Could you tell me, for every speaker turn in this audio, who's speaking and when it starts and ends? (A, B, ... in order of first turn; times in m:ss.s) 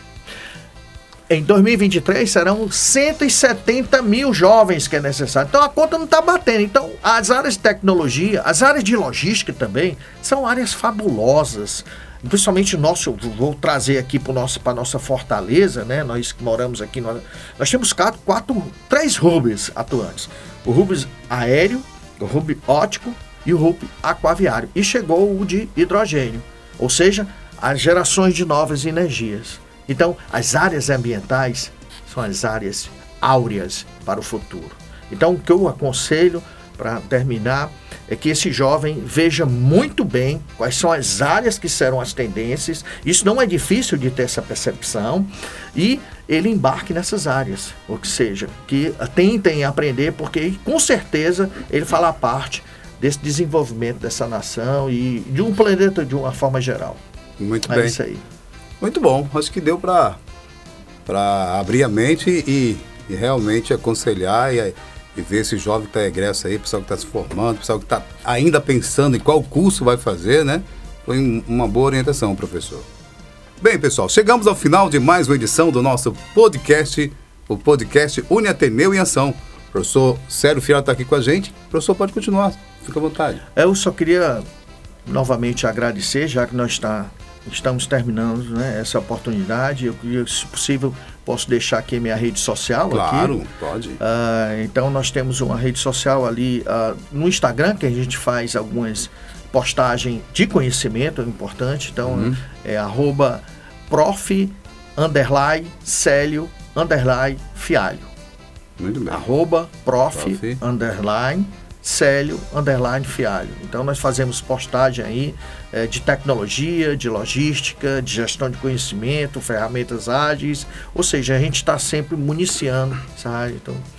0:01.3-0:57.0 A
0:57.4-0:58.0 B
0:57.7-0:58.2 A
0:58.8-1:00.2 B
1:01.1-1:12.9 B
1:13.6-1:23.4 B
1:23.6-1:24.4 A
1:25.1-1:33.4 A
1:32.9-1:34.0 B
1:34.0-1:48.1 A
1:42.1-1:42.4 B
1:48.8-1:49.3 B
1:49.1-2:03.8 A
1:50.2-1:50.6 B